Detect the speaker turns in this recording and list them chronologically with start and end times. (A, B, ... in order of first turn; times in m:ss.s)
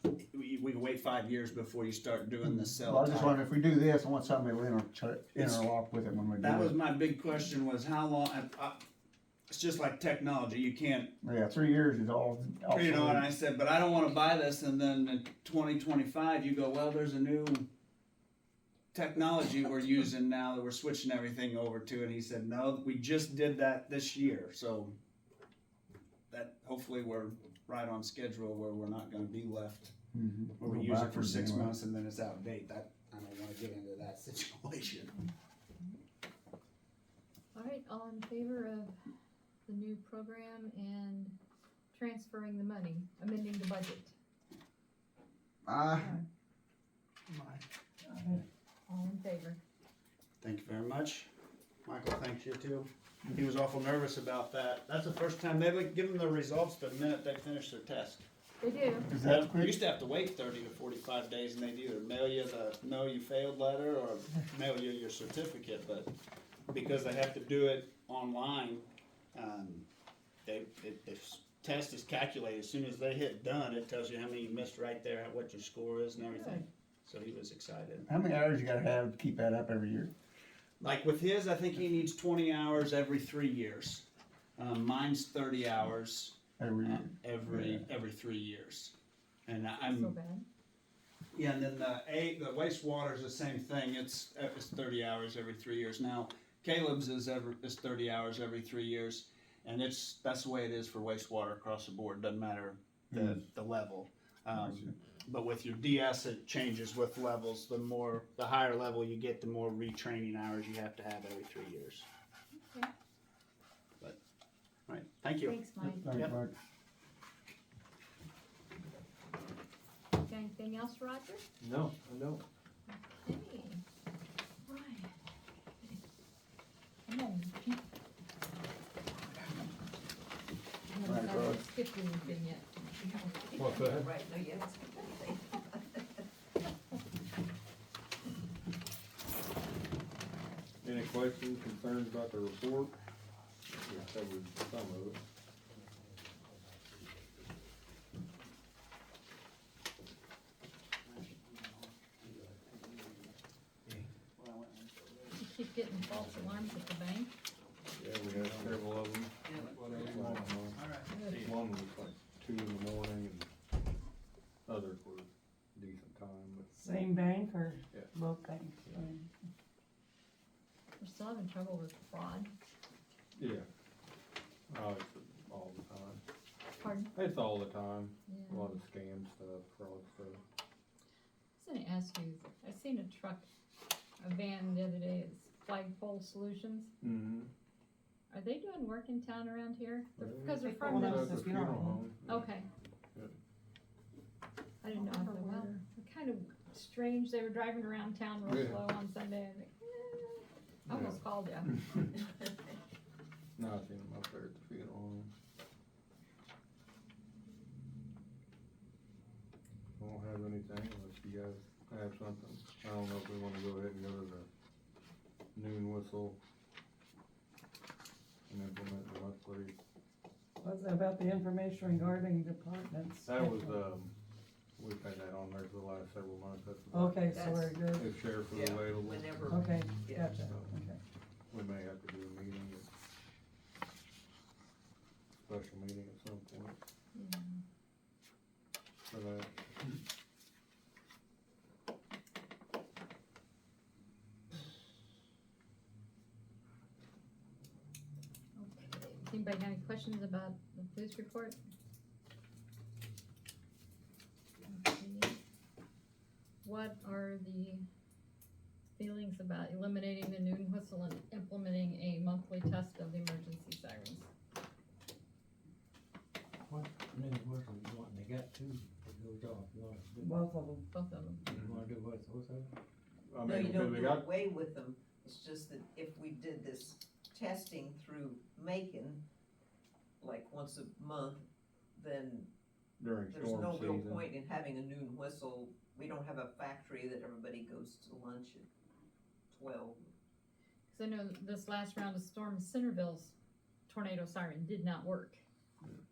0:00.3-0:03.4 A
0:02.8-0:06.7 B
0:05.3-0:05.6 A
0:06.4-0:08.8 A
0:09.5-0:11.1 A
0:11.2-0:13.2 B
0:12.7-0:17.7 A
0:18.9-0:25.0 A
0:26.3-0:29.9 A
0:30.1-0:31.7 B
0:30.6-0:35.1 A
0:37.5-0:39.0 C
0:39.7-0:41.4 C
0:41.9-0:44.1 C
0:45.6-0:46.1 B
0:46.0-0:46.2 D
0:47.3-0:47.6 B
0:48.0-0:48.4 D
0:48.9-0:49.6 C
0:50.4-0:51.3 A
0:51.8-0:58.2 A
0:58.6-0:59.1 C
0:59.1-0:59.7 B
0:59.2-1:06.1 A
1:06.7-1:09.9 A
1:10.4-1:18.0 A
1:16.3-1:16.6 C
1:18.0-1:20.1 B
1:20.8-1:24.0 A
1:24.6-1:28.9 A
1:26.6-1:27.1 B
1:29.4-1:30.1 A
1:29.8-1:30.4 C
1:31.3-1:52.1 A
1:52.6-1:52.9 C
1:54.9-1:55.6 A
1:55.4-1:56.1 C
1:55.8-1:56.5 B
2:00.1-2:01.4 C
2:01.6-2:02.4 E
2:02.9-2:03.8 C
2:04.6-2:05.1 C
2:07.1-2:07.8 C
2:10.9-2:12.9 C
2:11.0-2:11.6 A
2:13.0-2:16.2 F
2:13.6-2:14.1 E
2:20.8-2:23.0 E
2:23.7-2:25.2 E
2:25.7-2:27.0 G
2:31.0-2:33.3 A
2:34.3-2:35.4 A
2:35.3-2:37.3 C
2:37.9-2:43.5 E
2:38.3-2:38.8 G
2:39.5-2:41.4 A
2:39.8-2:40.4 G
2:44.6-2:46.7 E
2:46.7-2:49.2 D
2:51.0-2:52.5 C
2:53.4-2:53.7 E
2:54.7-2:56.2 E
2:56.8-2:57.1 C
2:57.1-3:00.4 E
2:58.3-2:58.8 C
3:01.6-3:03.5 C
3:04.2-3:06.9 C
3:07.0-3:07.5 E
3:08.3-3:11.4 C
3:10.2-3:12.5 E
3:10.6-3:12.0 D
3:12.3-3:12.7 C
3:14.8-3:22.1 C
3:14.9-3:15.7 D
3:18.4-3:18.8 E
3:20.9-3:21.2 E
3:21.7-3:22.1 E
3:23.6-3:25.3 E
3:30.0-3:34.5 E
3:35.5-3:36.4 E
3:38.5-3:39.7 E
3:40.6-3:43.7 D
3:43.2-3:44.1 E
3:44.8-3:47.4 E
3:46.9-3:48.1 D
3:47.3-3:47.8 F
3:47.9-3:49.4 E
3:48.4-3:50.3 F
3:49.5-3:51.0 D
3:50.4-3:50.7 E
3:51.5-3:52.9 E
3:55.4-3:56.8 E
3:57.1-3:57.6 C
3:59.1-4:00.0 E
4:08.6-4:11.6 C
4:14.7-4:15.4 C
4:16.6-4:17.8 C
4:19.0-4:24.3 C
4:26.7-4:30.5 G
4:30.2-4:30.8 D
4:30.9-4:31.4 C
4:31.4-4:32.7 G
4:33.2-4:34.3 E
4:33.4-4:39.2 F
4:40.2-4:42.5 F
4:43.0-4:44.2 E
4:43.3-4:48.7 F
4:49.5-4:50.1 F
4:50.9-4:53.3 C
4:53.9-4:55.4 C